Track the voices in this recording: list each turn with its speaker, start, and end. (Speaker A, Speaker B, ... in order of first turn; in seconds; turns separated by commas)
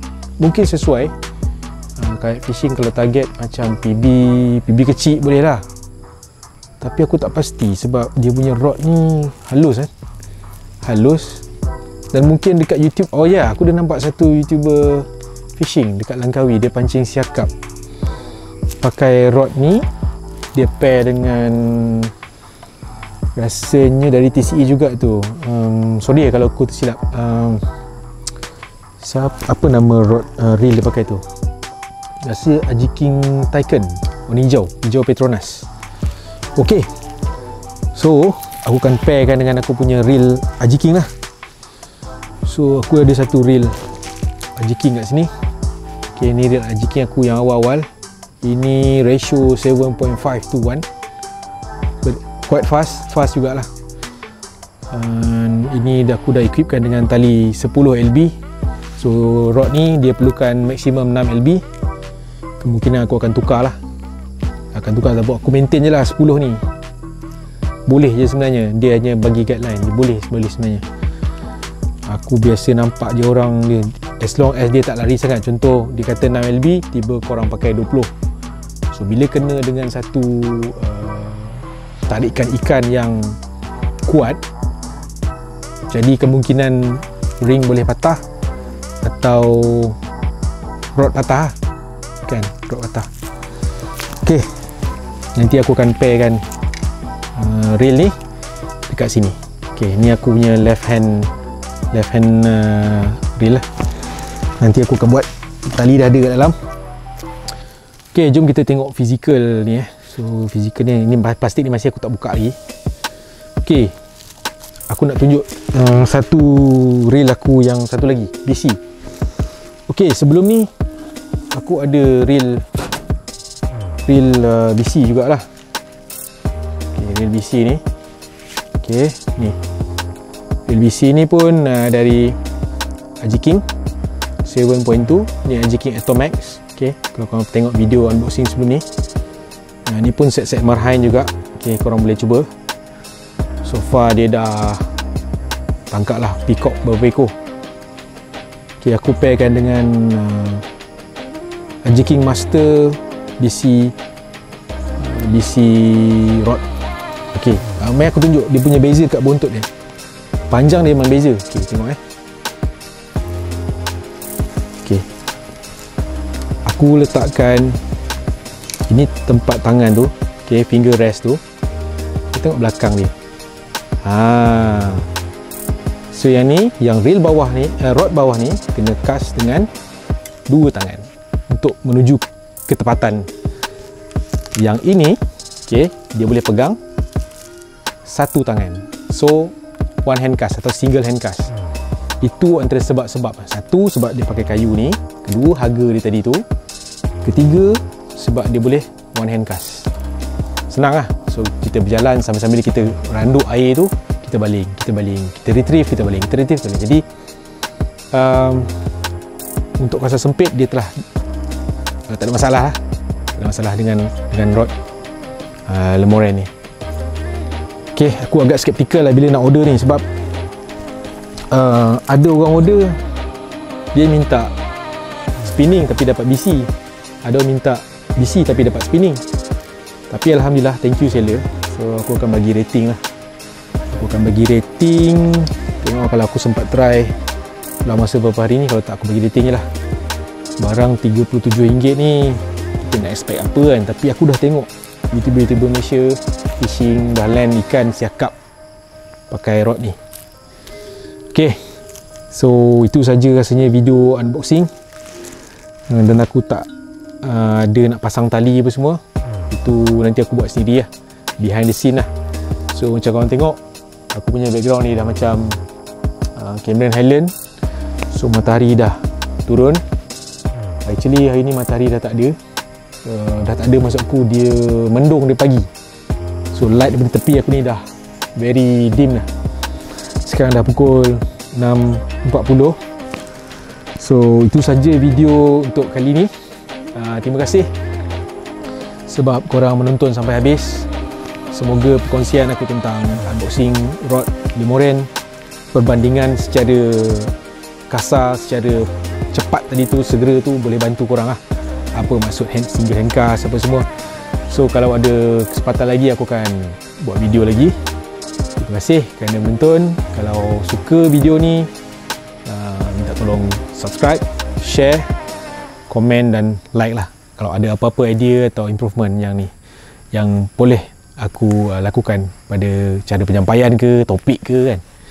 Speaker A: 0.4-1.1, Speaker A: 2.0-5.7, Speaker A: 6.8-9.9, Speaker A: 10.8-11.4, Speaker A: 12.1-17.5, Speaker A: 18.8-19.9, Speaker A: 20.5-22.1, Speaker A: 23.4-27.6, Speaker A: 29.0-31.2, Speaker A: 32.2-35.7, Speaker A: 36.5-36.9, Speaker A: 37.9-41.1, Speaker A: 42.4-43.9, Speaker A: 44.5-45.3, Speaker A: 46.1-47.9, Speaker A: 48.4-50.9, Speaker A: 52.0-53.7, Speaker A: 54.9-58.3, Speaker A: 59.0-61.6, Speaker A: 62.6-63.8, Speaker A: 64.7-66.6, Speaker A: 67.9-70.8, Speaker A: 72.0-78.1, Speaker A: 78.9-83.4, Speaker A: 84.0-84.4, Speaker A: 85.9-88.2, Speaker A: 89.0-90.0, Speaker A: 90.9-91.5, Speaker A: 92.2-93.1, Speaker A: 94.2-94.5, Speaker A: 95.3-96.4, Speaker A: 97.3-98.1, Speaker A: 98.9-101.3, Speaker A: 101.9-103.7, Speaker A: 104.6-106.5, Speaker A: 108.1-112.6, Speaker A: 113.6-113.9, Speaker A: 114.9-118.8, Speaker A: 119.9-120.7, Speaker A: 121.5-122.7, Speaker A: 124.0-125.5, Speaker A: 126.9-127.8, Speaker A: 128.8-129.6, Speaker A: 130.7-132.4, Speaker A: 133.2-133.6, Speaker A: 134.4-138.8, Speaker A: 139.8-142.5, Speaker A: 143.6-144.8, Speaker A: 145.9-147.3, Speaker A: 148.8-150.6, Speaker A: 151.8-153.9, Speaker A: 155.0-156.6, Speaker A: 157.3-159.7, Speaker A: 160.5-162.0, Speaker A: 166.6-167.8, Speaker A: 168.9-171.4, Speaker A: 172.3-173.1, Speaker A: 174.0-175.1, Speaker A: 176.1-179.7, Speaker A: 180.5-183.3, Speaker A: 184.6-186.8, Speaker A: 188.1-191.5, Speaker A: 192.2-196.4, Speaker A: 197.2-199.9, Speaker A: 200.7-207.0, Speaker A: 208.1-208.7, Speaker A: 209.8-211.0, Speaker A: 212.1-212.8, Speaker A: 213.3-214.7, Speaker A: 215.7-216.5, Speaker A: 217.9-220.0, Speaker A: 221.5-223.0, Speaker A: 223.9-224.5, Speaker A: 225.4-226.7, Speaker A: 227.2-229.2, Speaker A: 230.1-233.0, Speaker A: 233.9-237.2, Speaker A: 237.8-239.7, Speaker A: 240.6-248.3, Speaker A: 249.3-250.0, Speaker A: 251.3-251.6, Speaker A: 252.3-254.7, Speaker A: 255.9-256.7, Speaker A: 257.2-262.1, Speaker A: 262.7-263.6, Speaker A: 264.1-265.6, Speaker A: 266.3-267.3, Speaker A: 268.1-269.8, Speaker A: 270.8-272.4, Speaker A: 273.0-275.7, Speaker A: 276.5-279.3, Speaker A: 280.2-282.8, Speaker A: 284.0-286.3, Speaker A: 286.9-287.7, Speaker A: 289.1-290.9, Speaker A: 291.5-295.1, Speaker A: 295.7-297.4, Speaker A: 297.9-301.4, Speaker A: 301.9-303.9, Speaker A: 304.5-307.8, Speaker A: 308.6-311.7, Speaker A: 312.4-315.1, Speaker A: 315.9-319.5, Speaker A: 320.1-324.8